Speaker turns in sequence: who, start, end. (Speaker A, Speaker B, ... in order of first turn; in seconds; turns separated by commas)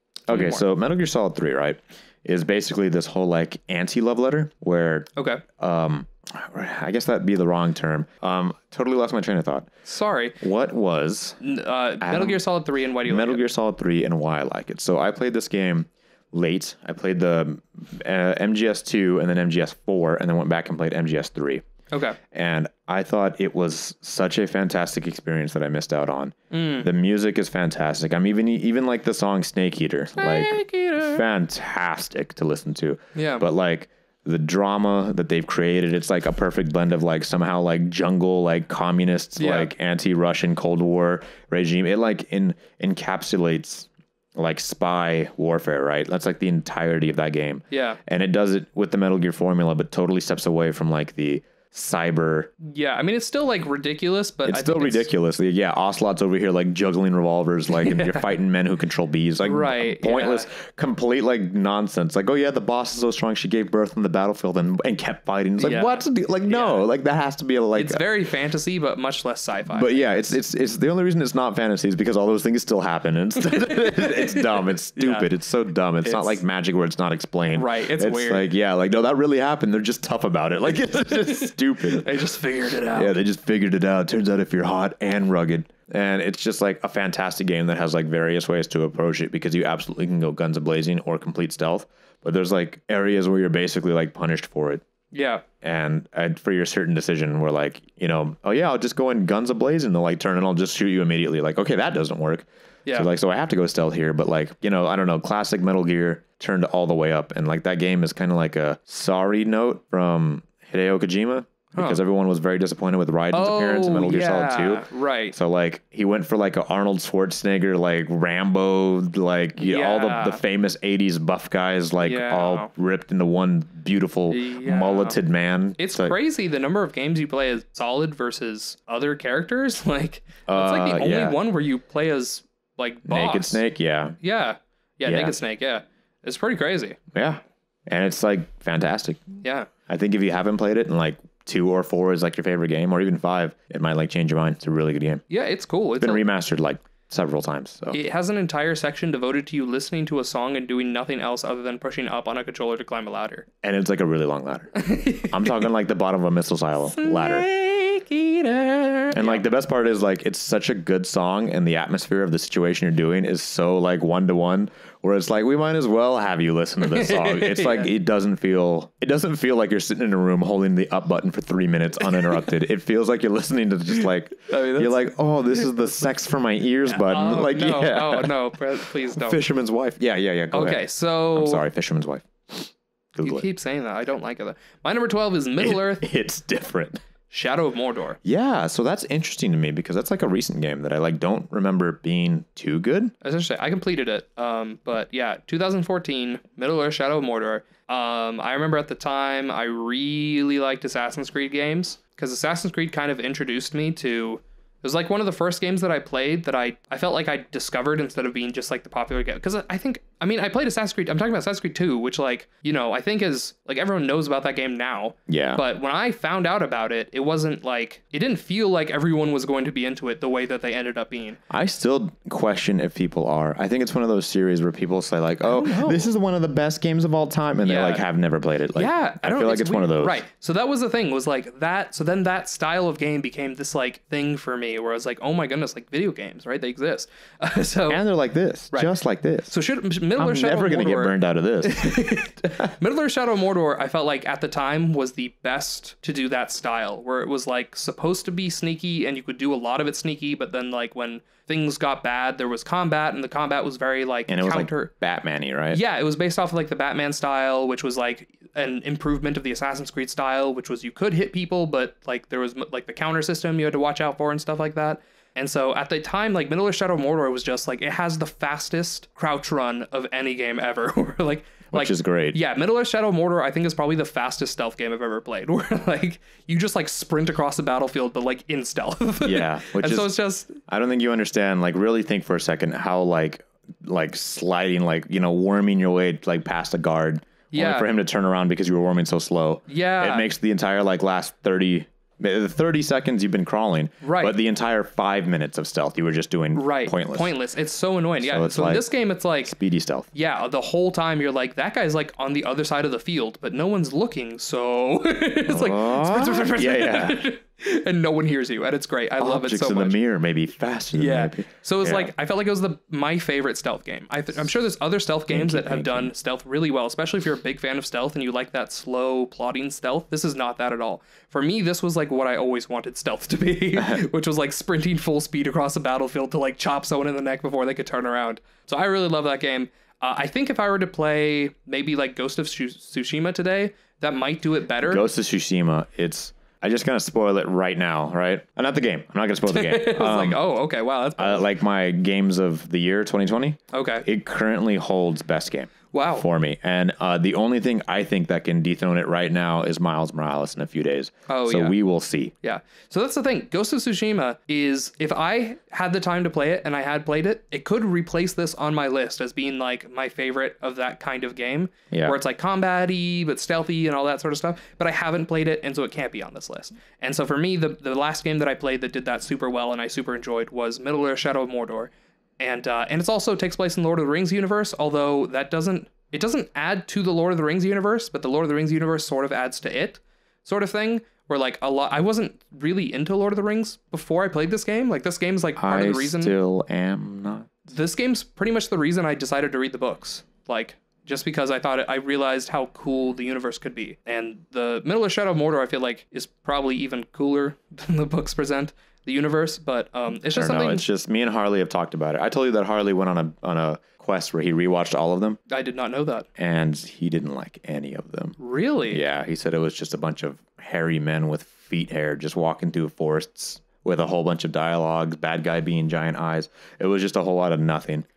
Speaker A: 0.3-9.7, Speaker B: 0.3-0.7, Speaker B: 5.2-5.4, Speaker B: 9.8-10.4, Speaker A: 10.4-11.4, Speaker B: 11.4-13.4, Speaker A: 12.0-12.4, Speaker A: 13.0-21.6, Speaker B: 21.9-22.2, Speaker A: 22.3-52.5, Speaker B: 26.5-26.9, Speaker B: 30.1-31.2, Speaker B: 33.1-33.5, Speaker B: 39.4-39.7, Speaker B: 47.7-48.0, Speaker B: 52.6-55.1, Speaker A: 54.5-68.0, Speaker B: 57.8-58.2, Speaker B: 59.4-60.5, Speaker B: 65.6-66.9, Speaker B: 67.8-70.0, Speaker A: 69.7-82.2, Speaker B: 73.4-75.3, Speaker B: 76.0-76.4, Speaker B: 77.5-78.4, Speaker B: 80.9-83.2, Speaker A: 82.9-94.8, Speaker B: 95.1-95.4, Speaker A: 95.6-126.2, Speaker B: 111.8-112.0, Speaker B: 113.3-115.3, Speaker B: 119.6-120.4, Speaker B: 122.0-122.7, Speaker B: 124.3-125.2, Speaker B: 125.8-133.6, Speaker A: 130.5-131.4, Speaker A: 133.1-134.2, Speaker B: 134.2-137.0, Speaker A: 135.1-135.3, Speaker A: 137.1-139.2, Speaker B: 139.4-139.7, Speaker A: 139.9-145.2, Speaker B: 145.3-146.2, Speaker A: 146.0-148.0, Speaker B: 147.9-153.5, Speaker A: 153.6-157.5, Speaker B: 154.8-155.7, Speaker B: 156.9-159.4, Speaker A: 159.1-183.5, Speaker B: 166.8-167.9, Speaker B: 172.0-172.5, Speaker B: 174.5-175.9, Speaker B: 176.9-179.4, Speaker B: 180.5-181.6, Speaker B: 183.2-186.1, Speaker A: 185.6-187.0, Speaker B: 187.3-188.2, Speaker A: 188.2-193.1, Speaker B: 193.2-221.4, Speaker A: 215.3-215.6, Speaker A: 221.5-230.2, Speaker B: 225.4-226.1, Speaker B: 227.6-228.1, Speaker B: 228.8-238.0, Speaker A: 237.9-239.5, Speaker B: 239.5-254.9, Speaker A: 240.2-242.7, Speaker A: 254.3-255.8, Speaker B: 255.7-280.6, Speaker A: 271.7-272.4, Speaker A: 279.2-297.4, Speaker B: 287.5-287.9, Speaker B: 289.7-290.3, Speaker B: 294.0-294.4, Speaker B: 296.5-299.5, Speaker A: 298.2-298.9, Speaker A: 299.4-300.1, Speaker B: 300.1-310.0, Speaker A: 305.5-307.2, Speaker A: 309.2-312.1, Speaker B: 310.9-335.1, Speaker A: 315.3-316.1, Speaker A: 334.8-340.4, Speaker B: 339.5-341.5, Speaker A: 341.2-352.3, Speaker B: 343.7-344.1, Speaker B: 345.9-346.3, Speaker B: 351.3-351.8, Speaker B: 352.4-386.4, Speaker A: 361.9-362.2, Speaker A: 385.6-387.5, Speaker B: 387.7-400.9, Speaker A: 400.3-405.4, Speaker B: 405.5-406.3, Speaker A: 406.4-408.4, Speaker B: 408.4-409.0, Speaker A: 408.9-418.1